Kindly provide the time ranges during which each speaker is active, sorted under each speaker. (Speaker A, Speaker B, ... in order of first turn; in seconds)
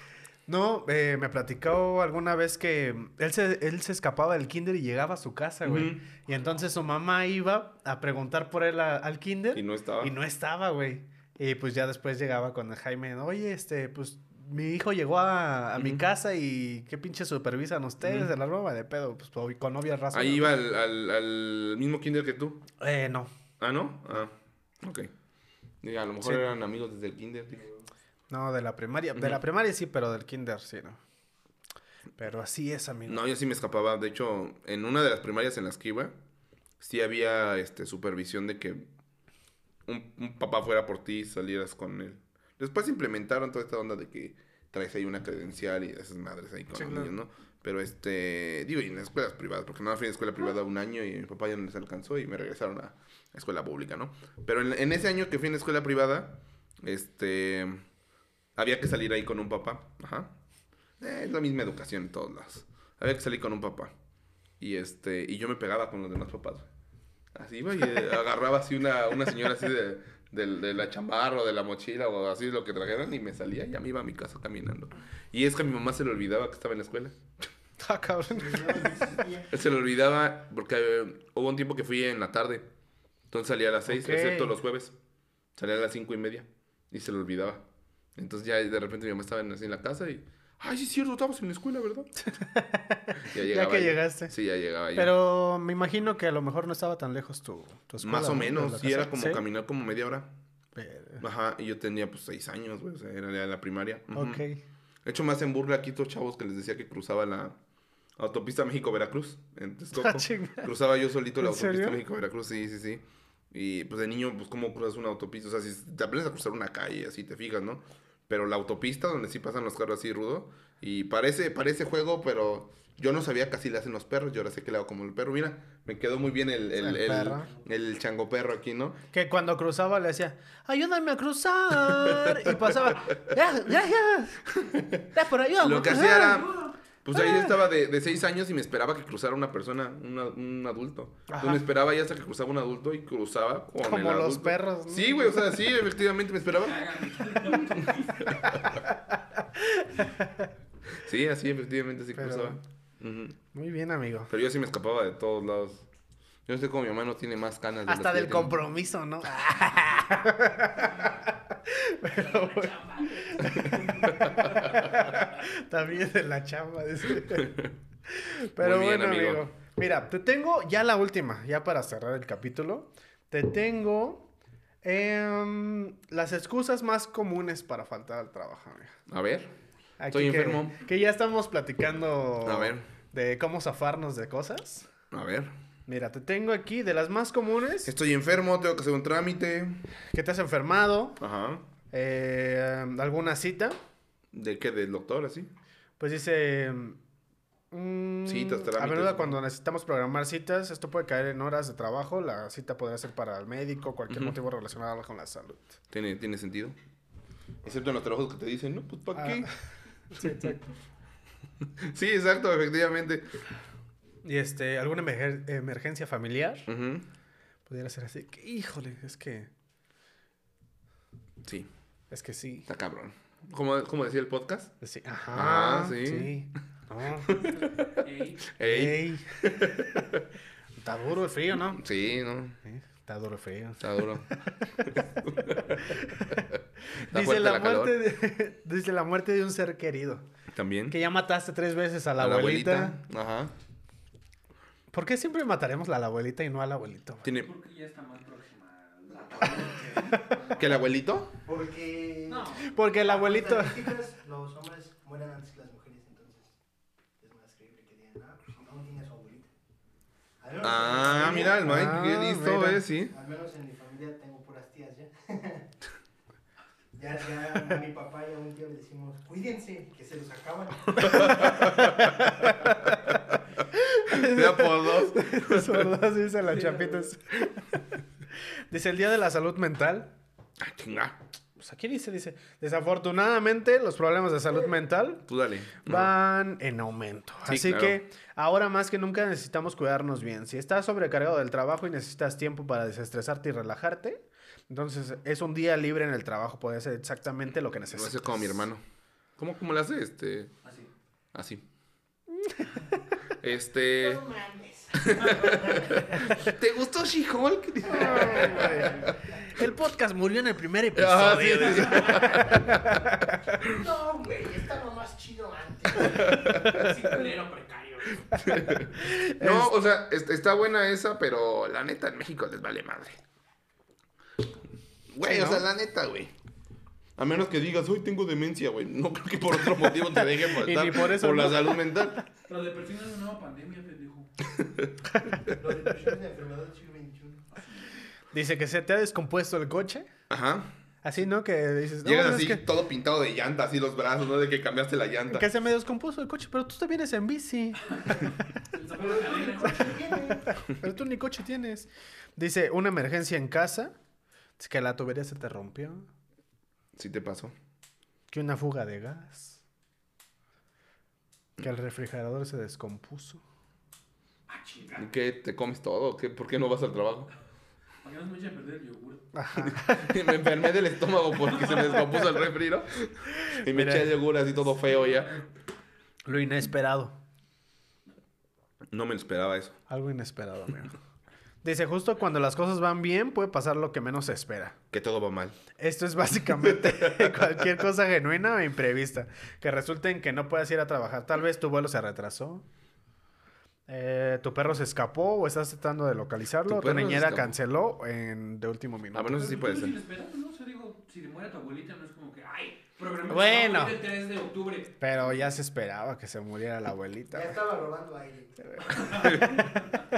Speaker A: 0.5-20.6, 22.8-23.3, 26.2-26.5, 28.3-31.0, 32.2-33.2, 46.7-47.1, 77.8-79.2, 83.9-84.5, 92.3-94.3, 94.9-99.4, 100.8-101.2, 104.1-104.6, 109.9-110.7, 111.4-112.0, 126.8-127.5, 129.1-134.5, 135.1-136.5, 137.1-137.6, 141.3-141.6, 143.8-145.4, 148.6-150.5, 152.2-152.6, 153.5-154.3, 157.8-174.3, 174.8-178.9, 180.0-184.9, 185.9-187.9, 190.1-191.2, 191.9-193.8, 196.0-197.0, 197.7-205.8, 209.2-209.5, 210.1-210.7, 214.2-216.7, 217.7-219.5, 222.1-222.7, 224.8-227.5, 228.6-229.4, 230.8-231.8, 232.6-235.0, 235.7-240.2, 240.9-243.0, 244.9-247.3, 252.6-253.9, 261.6-262.8, 271.0-272.9, 273.7-277.8, 278.7-280.1, 281.6-285.3, 285.8-298.6, 302.4-302.8, 307.9-313.4, 318.9-319.7, 325.2-325.6, 329.9-332.0, 338.3-340.1, 341.0-342.6, 345.3-348.4, 350.6-353.9, 354.6-356.1, 358.3-359.6, 361.6-363.4, 369.3-370.2, 373.4-374.1, 376.2-377.1, 379.9-380.9, 381.6-384.8, 385.8-392.6, 393.9-399.5, 403.3-403.9, 405.0-407.6
Speaker B: 5.6-6.0, 9.5-10.1, 15.8-16.0, 18.0-18.3, 20.1-22.6, 23.6-25.1, 25.8-27.7, 33.1-36.1, 36.8-38.9, 39.9-57.8, 58.5-60.3, 61.0-63.9, 64.6-66.7, 67.3-77.2, 79.5-82.7, 83.3-84.9, 85.5-87.6, 88.2-92.1, 93.2-95.1, 98.0-100.3, 101.2-104.4, 105.0-107.6, 108.2-129.0, 131.8-132.9, 134.6-135.0, 135.6-146.9, 147.5-148.6, 150.9-153.3, 154.3-155.8, 156.4-158.6, 163.6-164.8, 167.2-167.7, 168.6-169.4, 179.1-179.5, 180.1-180.8, 182.4-182.9, 185.1-185.5, 187.8-189.8, 191.2-191.7, 194.3-195.5, 198.2-199.4, 204.1-204.4, 205.9-206.8, 207.6-209.5, 210.2-210.5, 211.6-213.4, 216.7-217.1, 221.4-221.7, 222.7-224.7, 225.3-226.4, 227.3-230.2, 231.7-232.6, 233.8-234.3, 234.8-236.6, 237.1-238.0, 240.5-241.0, 242.2-243.5, 247.2-247.5, 250.5-251.3, 260.6-263.1, 271.1-271.9, 274.1-275.9, 280.6-281.2, 285.3-286.1, 287.4-288.0, 297.9-298.8, 299.4-300.5, 301.3-301.6, 303.3-304.2, 305.0-309.1, 310.9-313.0, 316.0-316.8, 318.4-323.2, 325.1-326.3, 327.1-332.2, 334.6-334.9, 340.3-340.7, 342.0-345.5, 356.9-357.5, 365.0-367.3, 369.6-375.4, 378.9-379.8, 384.9-385.6, 386.6-387.5, 396.6-397.5, 399.1-400.0, 409.0-409.8
Speaker C: 78.3-79.5, 249.4-250.7, 251.4-256.5, 257.2-259.5, 260.4-261.8, 263.1-265.7, 266.9-272.0, 303.9-306.3, 307.9-308.9, 313.6-316.2, 335.6-337.5, 348.9-350.5, 407.3-409.4
Speaker D: 136.0-136.7, 146.6-148.5, 162.1-164.2, 228.0-228.4, 247.4-250.4, 252.3-252.7, 276.4-277.1, 300.6-300.9, 316.5-318.3, 332.5-334.3, 337.5-338.0, 347.9-350.3, 364.5-365.1, 368.0-369.3, 374.9-375.4, 399.3-405.0, 409.2-409.9